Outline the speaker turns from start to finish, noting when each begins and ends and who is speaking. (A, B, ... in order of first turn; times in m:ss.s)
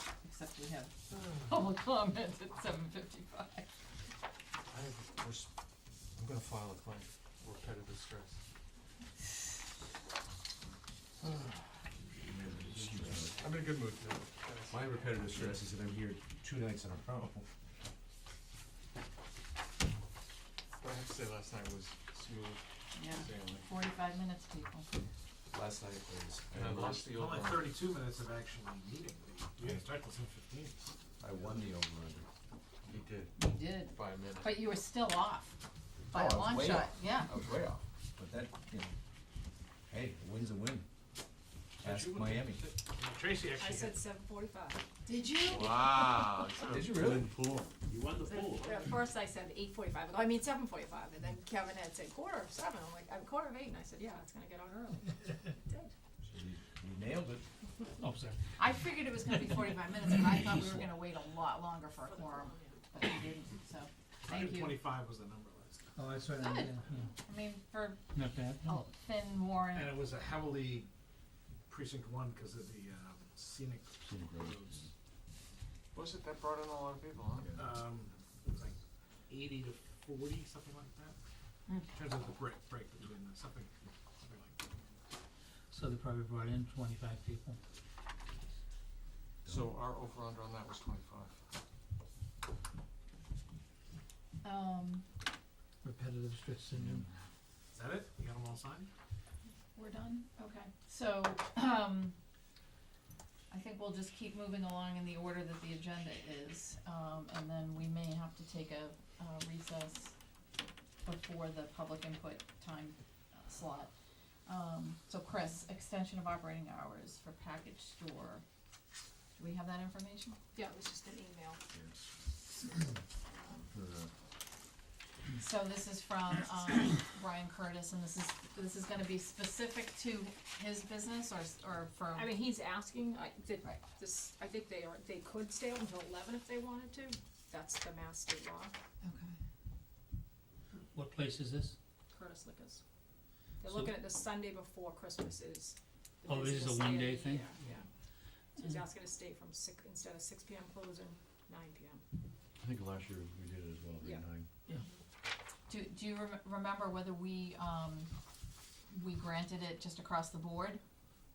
0:00.2-0:03.7 A
0:04.7-0:05.5 B
0:06.2-0:08.4 B
0:12.2-0:13.4 C
0:12.5-0:14.8 B
0:14.7-0:17.5 C
0:20.8-0:23.6 B
0:23.0-0:24.9 A
0:25.5-0:27.0 C
0:26.5-0:27.7 B
0:26.9-0:30.9 D
0:31.2-0:32.3 C
0:32.9-0:33.3 B
0:33.4-0:35.6 A
0:33.9-0:34.6 B
0:36.1-0:37.4 A
0:36.1-0:38.9 C
0:39.9-0:40.9 C
0:41.8-0:42.6 C
0:41.8-0:44.0 D
0:43.6-0:44.9 E
0:45.1-0:45.9 A
0:45.4-0:48.9 B
0:46.7-0:47.3 C
0:48.3-0:55.9 E
0:56.2-0:57.4 C
0:58.0-0:58.4 F
0:58.6-1:04.8 A
1:02.2-1:02.8 E
1:04.3-1:05.9 D
1:06.0-1:07.1 F
1:06.4-1:06.7 A
1:07.2-1:08.0 A
1:08.1-1:08.8 F
1:08.6-1:09.9 A
1:09.7-1:10.9 D
1:11.7-1:14.8 D
1:14.0-1:14.9 B
1:15.9-1:17.7 B
1:17.5-1:18.8 D
1:19.3-1:21.2 D
1:21.9-1:24.6 D
1:25.7-1:27.6 F
1:29.5-1:31.4 B
1:34.4-1:35.1 A
1:35.8-1:37.1 F
1:37.7-1:38.9 D
1:39.8-1:42.2 A
1:43.5-1:50.2 A
1:51.0-1:53.9 A
1:54.5-1:58.4 A
1:59.4-2:00.4 A
2:00.6-2:01.6 E
2:03.3-2:03.6 E
2:03.7-2:04.1 B
2:05.4-2:12.3 A
2:12.1-2:18.7 E
2:19.0-2:19.4 A
2:20.9-2:21.8 F
2:22.1-2:22.8 E
2:23.6-2:27.9 E
2:23.7-2:24.1 F
2:26.3-2:27.6 F
2:28.6-2:32.0 E
2:32.6-2:34.5 B
2:34.0-2:34.3 E
2:35.7-2:38.1 A
2:38.9-2:40.8 A